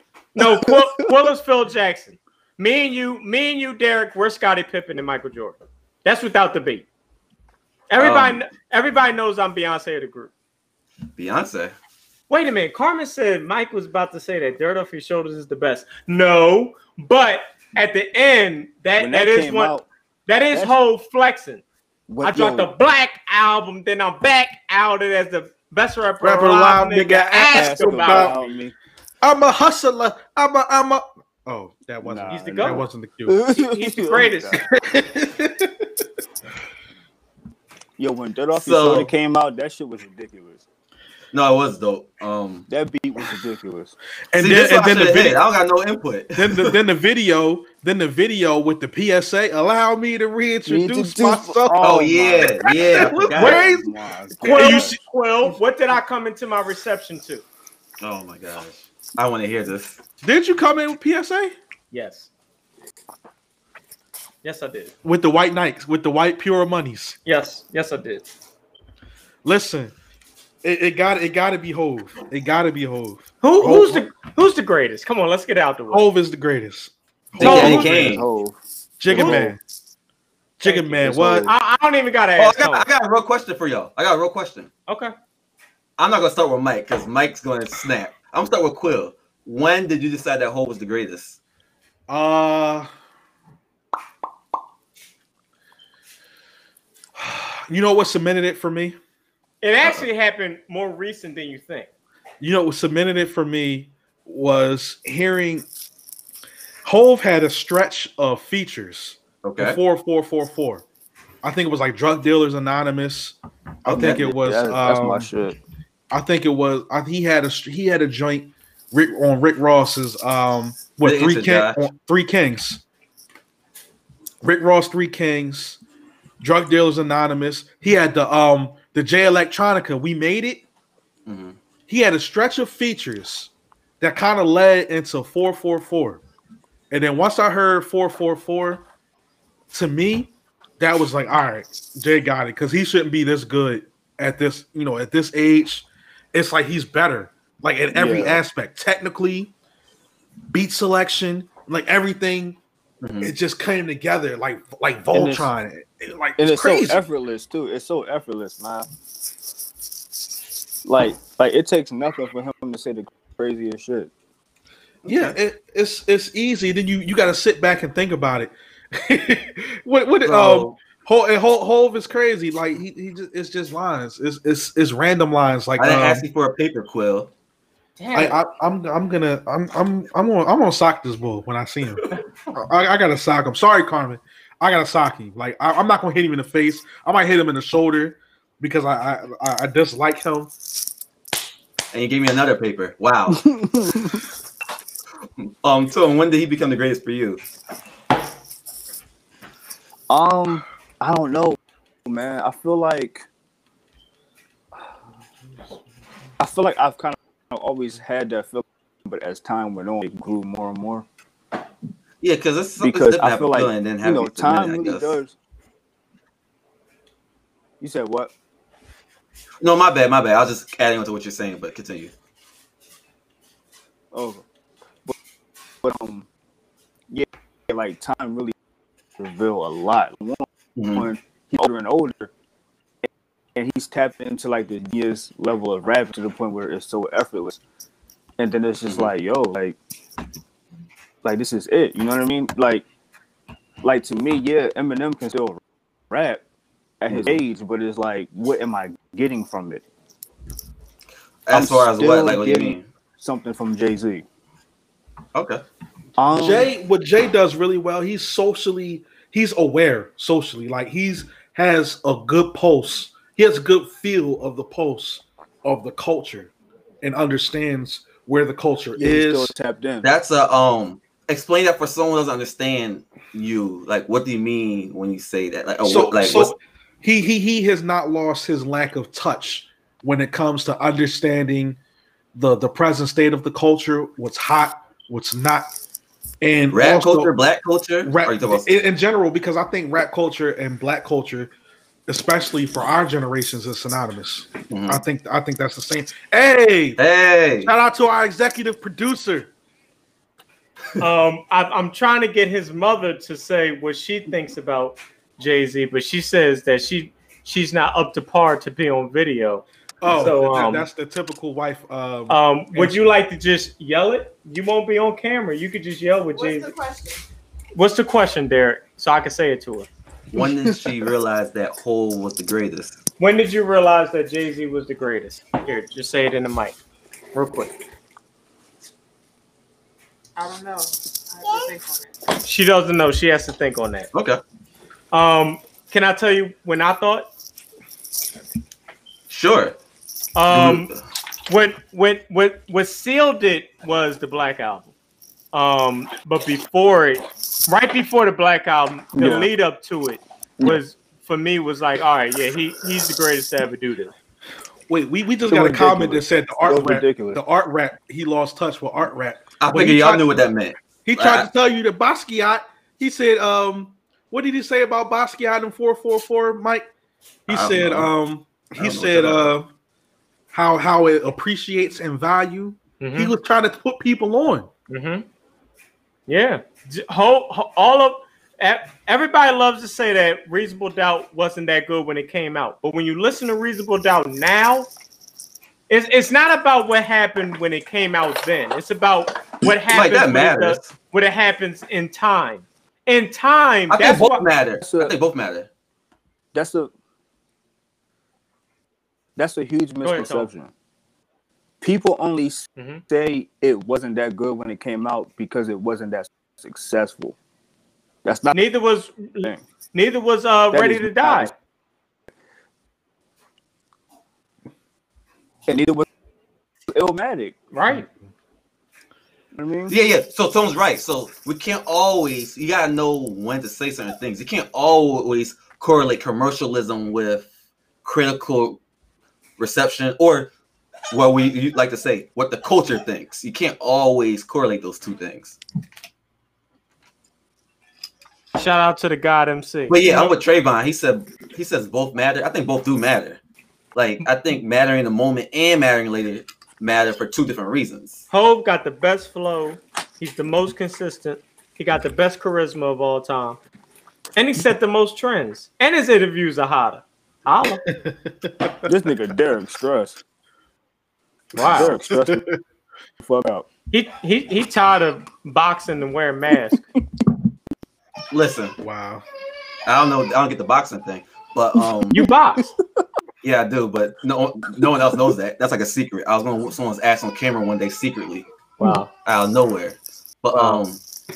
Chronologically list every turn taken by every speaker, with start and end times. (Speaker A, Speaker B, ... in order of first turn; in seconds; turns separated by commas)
Speaker A: 0.3-6.8, Speaker B: 0.3-1.1, Speaker A: 7.9-10.3, Speaker C: 8.0-8.4, Speaker C: 11.2-11.7, Speaker A: 12.3-21.6, Speaker B: 19.0-19.9, Speaker B: 22.1-22.7, Speaker A: 22.2-28.4, Speaker D: 26.2-28.5, Speaker B: 27.5-28.7, Speaker D: 29.2-33.4, Speaker B: 32.0-34.6, Speaker A: 32.3-32.9, Speaker A: 33.5-34.6, Speaker D: 34.6-35.9, Speaker B: 38.0-40.6, Speaker C: 38.5-39.1, Speaker C: 41.3-42.6, Speaker B: 42.7-43.9, Speaker D: 44.3-45.4, Speaker C: 44.3-46.8, Speaker D: 46.4-55.0, Speaker B: 50.6-55.0, Speaker C: 51.8-53.7, Speaker A: 54.4-57.4, Speaker C: 58.0-60.0, Speaker D: 60.2-61.5, Speaker A: 61.9-62.3, Speaker A: 64.4-64.9, Speaker D: 65.0-67.2, Speaker A: 67.2-68.2, Speaker D: 69.4-69.9, Speaker D: 70.6-74.0, Speaker A: 73.4-76.0, Speaker D: 75.9-78.2, Speaker C: 77.3-78.2, Speaker B: 77.4-78.6, Speaker A: 77.4-77.8, Speaker D: 79.0-79.6, Speaker B: 79.1-79.5, Speaker A: 79.1-79.5, Speaker D: 80.6-81.5, Speaker A: 80.6-82.9, Speaker B: 80.9-81.5, Speaker C: 82.4-84.7, Speaker A: 84.9-85.1, Speaker C: 86.0-91.4, Speaker D: 92.1-92.9, Speaker D: 97.2-99.0, Speaker A: 99.6-101.9, Speaker D: 102.4-105.6, Speaker D: 106.8-110.8, Speaker C: 109.4-109.8, Speaker D: 111.4-115.3, Speaker C: 113.8-114.2, Speaker B: 113.9-115.6, Speaker D: 116.1-122.8, Speaker C: 121.0-121.8, Speaker D: 124.4-125.8, Speaker D: 126.4-130.6, Speaker C: 131.2-131.6, Speaker D: 131.9-136.2, Speaker D: 136.9-138.8, Speaker D: 139.7-149.5, Speaker B: 147.9-148.4, Speaker D: 150.5-152.6, Speaker C: 153.0-153.3, Speaker D: 153.2-157.0, Speaker B: 155.1-155.5, Speaker B: 156.4-158.9, Speaker B: 160.8-164.1, Speaker C: 165.0-165.4, Speaker D: 165.1-176.2, Speaker C: 170.2-170.8, Speaker C: 175.8-177.3, Speaker A: 178.0-178.4, Speaker D: 178.1-190.5, Speaker C: 191.9-193.5, Speaker B: 193.3-194.2, Speaker C: 195.6-197.4, Speaker B: 200.1-203.3, Speaker B: 206.4-211.1, Speaker C: 212.2-215.1, Speaker B: 212.8-215.3, Speaker B: 217.8-218.3, Speaker C: 219.6-222.1, Speaker B: 224.1-224.4, Speaker B: 225.8-226.3, Speaker B: 227.1-228.5, Speaker B: 229.2-232.3, Speaker C: 230.8-231.1, Speaker B: 233.6-237.6, Speaker B: 238.4-239.8, Speaker B: 241.2-242.8, Speaker B: 243.8-246.4, Speaker B: 247.0-249.8, Speaker C: 247.1-247.4, Speaker C: 251.4-252.9, Speaker B: 251.5-254.2, Speaker C: 255.3-255.6, Speaker B: 256.2-256.7, Speaker D: 256.3-266.5, Speaker D: 267.0-269.5, Speaker B: 268.9-270.1, Speaker C: 270.0-276.5, Speaker D: 275.8-281.8, Speaker D: 282.3-285.7, Speaker D: 286.4-287.3, Speaker C: 286.7-288.7, Speaker D: 288.0-291.5, Speaker D: 292.1-297.0, Speaker C: 294.7-295.0, Speaker C: 297.0-297.7, Speaker D: 297.6-299.5, Speaker A: 301.0-310.9, Speaker D: 310.0-313.0, Speaker A: 312.3-316.7, Speaker E: 316.3-317.2, Speaker A: 317.7-319.9, Speaker C: 320.3-323.0, Speaker B: 320.4-320.8, Speaker A: 323.2-326.8, Speaker A: 327.3-327.7, Speaker E: 330.4-332.1, Speaker A: 332.4-334.1, Speaker C: 334.1-334.4, Speaker A: 335.1-337.3, Speaker C: 339.3-339.8, Speaker A: 340.3-340.9, Speaker C: 340.5-341.0, Speaker A: 341.5-344.9, Speaker A: 345.5-354.1, Speaker B: 349.1-349.5, Speaker D: 354.9-360.3, Speaker B: 355.4-357.4, Speaker C: 359.6-361.5, Speaker D: 361.1-366.9, Speaker D: 367.5-369.7, Speaker C: 367.5-368.1, Speaker C: 368.8-369.5, Speaker D: 370.5-374.7, Speaker A: 373.0-373.3, Speaker A: 374.9-375.2, Speaker A: 376.3-384.9, Speaker A: 385.9-394.5, Speaker C: 389.9-390.9, Speaker C: 393.9-395.7, Speaker B: 394.8-395.1, Speaker B: 396.5-396.9, Speaker B: 399.4-400.7, Speaker A: 400.0-400.5, Speaker B: 401.8-407.4, Speaker A: 402.8-403.0, Speaker B: 408.2-408.6, Speaker A: 408.5-411.5, Speaker B: 410.7-411.5, Speaker B: 415.7-416.1, Speaker B: 416.9-417.6, Speaker A: 417.7-418.1, Speaker B: 419.5-419.9, Speaker C: 419.9-427.5, Speaker C: 428.0-428.8, Speaker C: 429.6-430.5, Speaker C: 431.1-435.6, Speaker A: 438.5-440.3, Speaker C: 439.9-443.4, Speaker C: 443.9-448.2, Speaker A: 448.3-453.6, Speaker A: 454.4-457.8, Speaker D: 457.9-458.9, Speaker B: 458.9-460.2, Speaker A: 461.5-462.0, Speaker D: 461.6-462.6, Speaker B: 461.7-462.4, Speaker B: 463.2-463.7, Speaker A: 463.9-466.8, Speaker C: 468.3-468.8, Speaker D: 468.8-469.2, Speaker C: 469.9-472.1, Speaker B: 472.1-473.0, Speaker A: 472.1-472.7, Speaker C: 473.4-478.5, Speaker A: 478.8-479.1, Speaker C: 479.2-481.0, Speaker A: 480.5-480.8